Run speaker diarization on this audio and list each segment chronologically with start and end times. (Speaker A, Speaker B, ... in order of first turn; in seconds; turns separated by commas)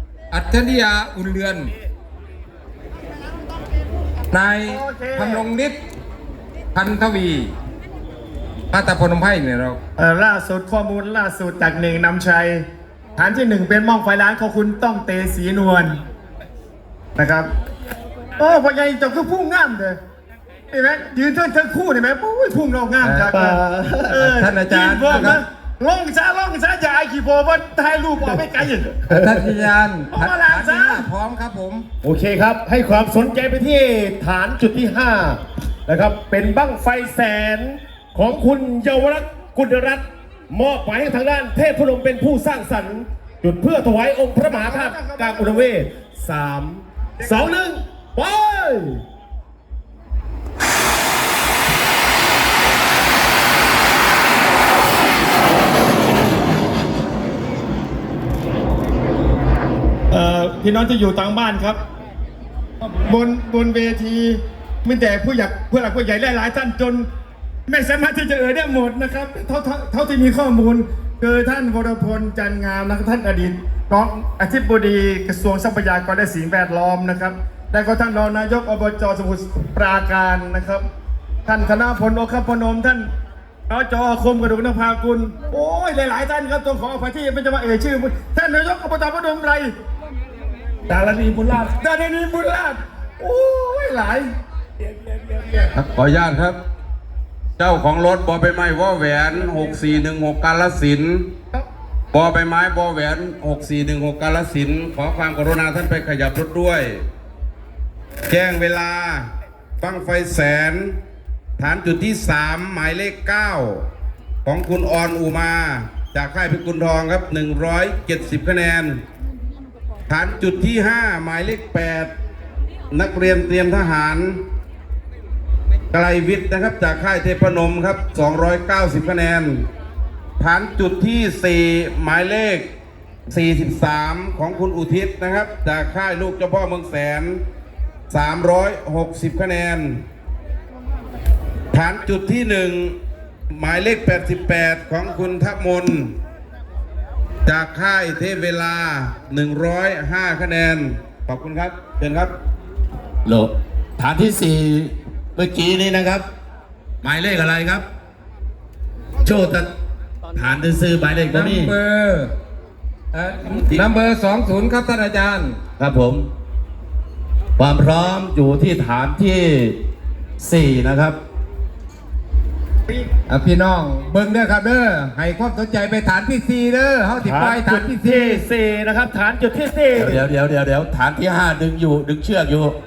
Speaker A: 0.3-1.7, Speaker A: 4.3-5.8, Speaker B: 4.7-5.5, Speaker A: 6.7-7.5, Speaker A: 8.7-9.8, Speaker B: 10.0-12.6, Speaker B: 13.2-16.0, Speaker B: 17.1-17.5, Speaker B: 18.4-20.0, Speaker B: 20.7-29.0, Speaker A: 23.0-23.3, Speaker C: 23.3-24.2, Speaker A: 24.2-25.4, Speaker A: 29.1-31.9, Speaker C: 29.1-29.4, Speaker B: 30.1-31.1, Speaker C: 32.0-49.0, Speaker B: 44.4-45.7, Speaker B: 47.2-47.5, Speaker B: 60.1-61.8, Speaker B: 63.0-67.1, Speaker B: 67.7-80.9, Speaker B: 81.5-83.1, Speaker B: 83.7-89.7, Speaker C: 90.9-91.7, Speaker B: 91.6-94.3, Speaker D: 95.9-96.6, Speaker D: 97.6-101.3, Speaker D: 102.1-107.0, Speaker D: 108.3-109.3, Speaker D: 109.8-111.0, Speaker D: 111.6-113.9, Speaker D: 114.4-119.0, Speaker D: 120.1-122.1, Speaker D: 122.9-124.4, Speaker D: 125.9-129.7, Speaker D: 130.4-132.7, Speaker D: 133.3-137.4, Speaker D: 138.1-140.1, Speaker D: 141.7-143.0, Speaker D: 143.5-146.2, Speaker D: 147.4-152.3, Speaker E: 153.2-156.2, Speaker E: 157.0-157.8, Speaker E: 159.2-159.7, Speaker E: 160.3-161.7, Speaker A: 161.3-162.3, Speaker A: 163.1-165.6, Speaker E: 165.8-166.3, Speaker E: 167.6-169.8, Speaker E: 170.4-171.2, Speaker A: 173.3-178.4, Speaker C: 177.2-180.2, Speaker E: 179.9-182.8